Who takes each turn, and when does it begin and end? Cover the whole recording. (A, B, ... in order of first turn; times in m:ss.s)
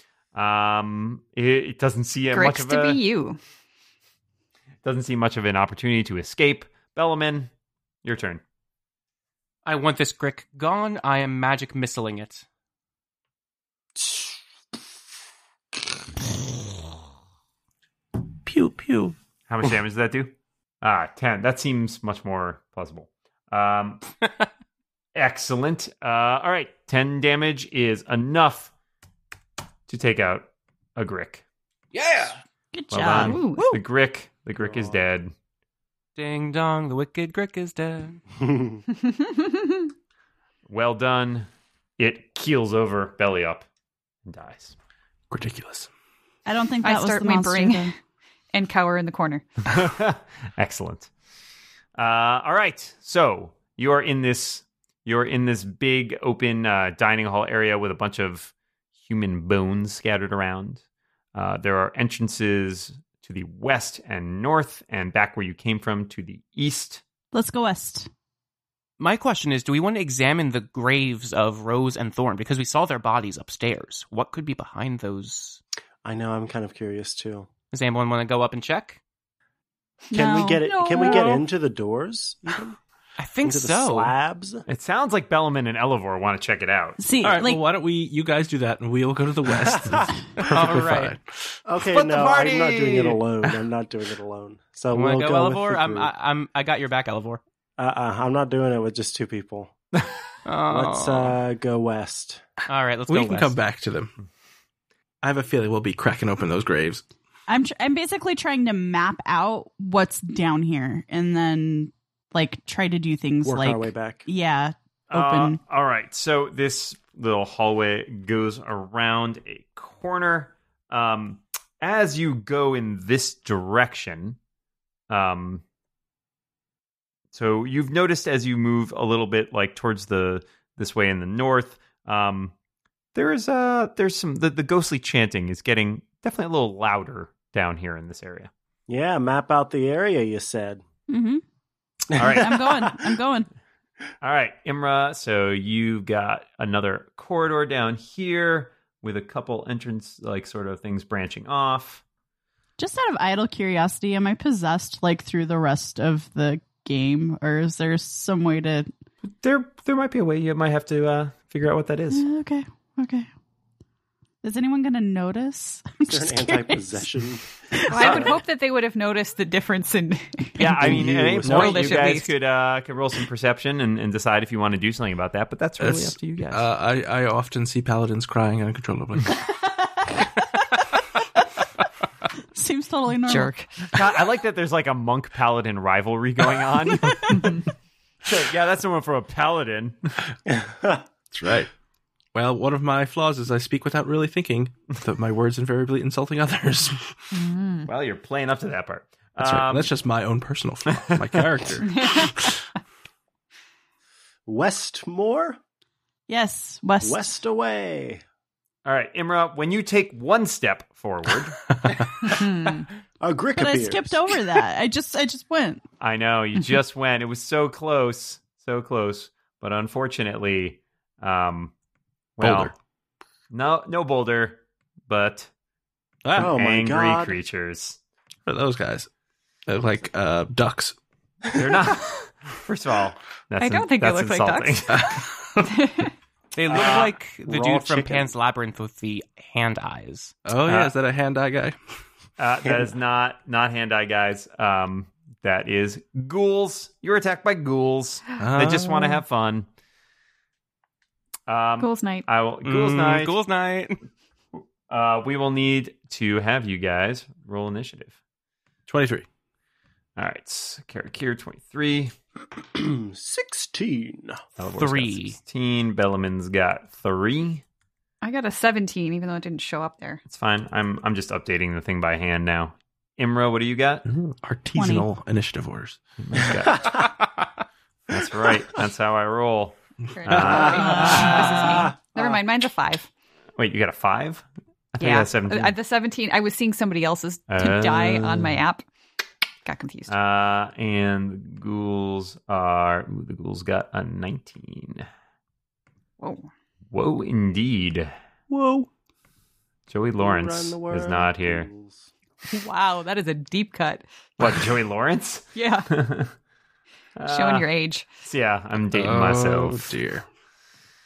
0:00.3-0:03.0 A
0:02.3-0:03.4 B
0:04.8-0:07.5 A
0:08.0-0:08.4 A
0:09.6-0:12.4 C
0:14.0-0:14.4 D
0:18.4-0:19.2 E
0:19.5-0:24.0 A
0:25.1-0:28.7 A
0:29.9-0:31.4 A
0:31.9-0:32.4 C
0:32.7-0:33.8 F
0:32.9-0:35.3 A
0:33.2-0:33.7 B
0:36.2-0:38.2 C
0:39.0-0:39.8 B
0:40.7-0:43.6 A
0:44.2-0:44.7 A
0:45.3-0:45.9 E
0:46.4-0:47.9 F
0:46.8-0:47.9 B
0:48.5-0:49.4 B
0:49.7-0:51.1 A
0:52.0-1:00.8 A
1:01.3-1:07.0 A
1:07.3-1:08.1 F
1:09.0-1:15.6 C
1:16.0-1:17.5 D
1:17.7-1:19.0 C
1:20.1-1:21.3 F
1:20.1-1:22.8 D
1:20.8-1:21.4 B
1:23.2-1:24.1 C
1:23.4-1:24.6 D
1:24.7-1:27.0 A
1:27.0-1:27.6 F
1:27.2-1:31.6 E
1:30.4-1:31.2 C
1:31.6-1:36.1 D
1:31.9-1:33.2 A
1:34.9-1:37.4 C
1:37.8-1:39.7 D
1:40.4-1:41.3 C
1:40.7-1:42.4 D
1:42.7-1:43.6 C
1:43.1-1:44.1 E
1:45.2-1:47.0 E
1:47.5-1:55.6 F
1:53.4-1:54.2 D
1:55.1-2:04.4 A
2:05.1-2:05.6 A
2:07.3-2:12.5 A
2:13.1-2:18.5 A
2:18.9-2:20.8 D
2:21.1-2:21.4 F
2:22.2-2:22.9 A
2:22.2-2:23.5 F
2:24.2-2:32.0 A
2:32.8-2:38.9 F
2:39.3-2:42.2 A
2:42.1-2:43.3 F
2:44.4-2:47.1 F
2:46.1-2:48.3 D
2:47.9-2:50.8 B
2:48.0-2:48.3 A
2:50.6-2:56.6 A
2:50.8-2:52.0 D
2:51.4-2:52.3 B
2:55.8-2:59.4 E
3:02.5-3:03.5 F
3:03.2-3:03.7 B
3:03.9-3:07.6 A
3:08.2-3:10.1 A
3:10.5-3:11.0 D
3:11.3-3:11.7 E
3:12.3-3:17.4 E
3:17.3-3:17.9 B
3:17.8-3:19.9 A
3:19.4-3:22.6 E
3:20.9-3:21.4 A
3:21.8-3:22.4 B
3:24.4-3:25.6 D
3:26.3-3:27.3 F
3:27.0-3:28.2 D
3:28.8-3:31.6 A
3:31.7-3:32.3 E
3:32.3-3:32.8 B
3:33.2-3:34.2 D
3:33.6-3:35.8 F
3:36.0-3:41.7 A
3:42.4-3:42.7 A
3:42.4-3:42.7 E
3:43.5-3:45.5 A
3:46.2-3:46.5 E
3:46.3-3:48.0 A
3:46.4-3:47.4 D
3:48.4-3:49.1 E
3:49.7-3:51.0 E
3:51.5-3:55.2 A
3:53.6-3:56.1 B
3:54.9-3:55.7 E
3:56.5-4:00.4 C
3:56.7-3:57.2 A
3:56.7-3:58.3 D
4:00.4-4:01.8 E
4:00.6-4:00.9 A
4:02.4-4:09.7 A
4:08.4-4:09.2 E
4:11.5-4:13.4 A
4:11.8-4:12.2 B
4:12.6-4:14.0 C
4:14.9-4:18.1 A
4:18.9-4:19.2 E
4:20.2-4:22.1 A
4:22.7-4:24.4 D
4:24.6-4:27.6 A
4:24.7-4:25.4 C
4:28.2-4:30.2 B
4:30.2-4:34.0 A
4:34.0-4:36.6 E
4:34.7-4:35.1 F
4:36.2-4:37.1 A
4:38.1-4:41.8 A
4:40.1-4:43.1 B
4:40.3-4:41.4 E
4:43.6-4:45.7 A
4:45.0-4:48.8 B
4:47.5-4:48.6 A
4:49.6-4:50.1 B
4:50.1-4:55.1 A
4:56.2-4:56.5 B
4:56.9-4:58.1 A
4:58.5-4:58.9 E
4:59.9-5:01.7 A
5:00.2-5:02.1 D
5:02.5-5:04.1 B
5:04.4-5:06.3 A
5:05.5-5:05.9 B
5:07.2-5:07.7 A
5:07.2-5:08.0 B
5:08.2-5:09.9 A
5:08.9-5:10.2 E